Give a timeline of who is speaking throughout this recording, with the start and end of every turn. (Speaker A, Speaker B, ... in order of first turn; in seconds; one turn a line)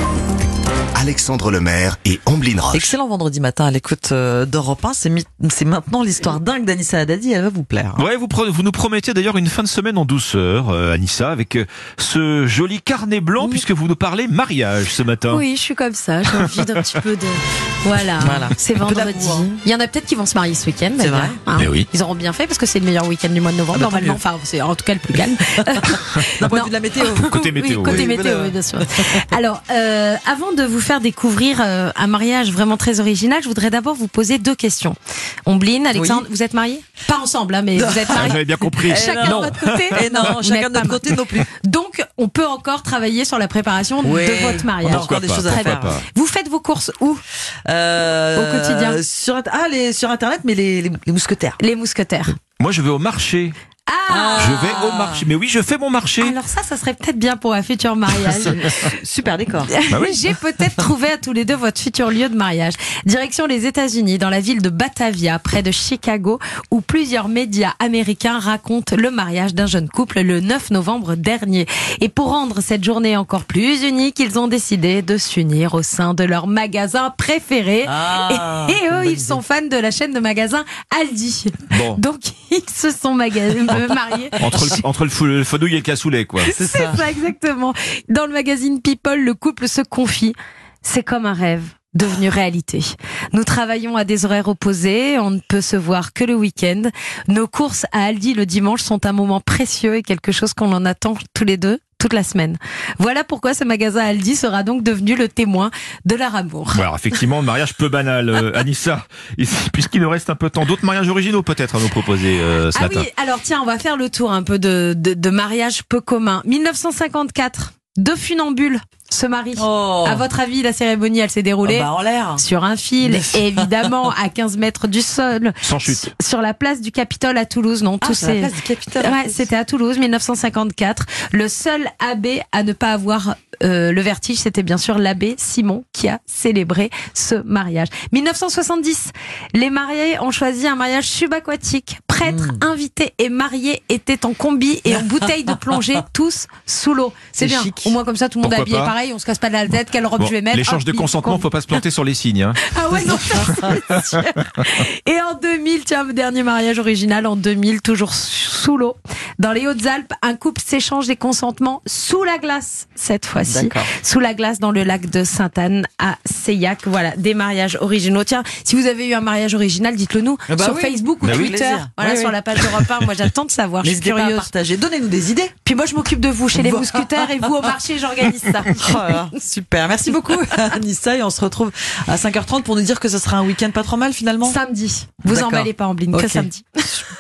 Speaker A: 0.9-3.0
Speaker B: 2.7-8.0
Speaker C: 8.0-15.4
Speaker D: 15.3-47.2
Speaker B: 18.2-19.6
Speaker B: 21.0-21.4
Speaker C: 21.5-21.9
Speaker B: 23.7-24.2
Speaker B: 25.5-29.2
Speaker C: 27.2-28.1
Speaker B: 35.9-36.2
Speaker B: 37.8-41.5
Speaker C: 38.1-40.3
Speaker B: 44.0-46.0
Speaker C: 44.8-46.0
Speaker B: 47.7-51.6
Speaker D: 48.3-49.0
Speaker D: 51.6-52.4
Speaker C: 52.6-53.5
Speaker D: 53.9-54.6
Speaker B: 54.1-55.3
Speaker C: 54.4-56.4
Speaker D: 56.2-59.0
Speaker B: 58.5-59.7
Speaker D: 59.7-84.8
Speaker C: 59.9-60.3
Speaker B: 77.8-79.4
Speaker C: 81.7-82.0
Speaker C: 84.4-86.5
Speaker B: 84.4-84.7
Speaker D: 86.4-106.9
Speaker B: 86.5-87.0
Speaker C: 106.7-113.1
Speaker D: 112.7-151.8
Speaker B: 119.6-120.3
Speaker B: 121.6-122.4
Speaker B: 123.0-123.9
Speaker C: 125.6-126.1
Speaker B: 128.0-129.4
Speaker B: 142.2-142.6
Speaker B: 147.4-147.9
Speaker C: 148.4-148.9
Speaker C: 150.2-152.6
Speaker D: 152.6-174.5
Speaker B: 163.4-163.9
Speaker B: 170.5-172.8
Speaker C: 171.2-171.6
Speaker B: 173.8-175.5
Speaker D: 175.6-179.2
Speaker B: 176.5-177.7
Speaker B: 178.7-184.6
Speaker D: 180.1-180.7
Speaker D: 184.4-187.1
Speaker B: 185.2-186.5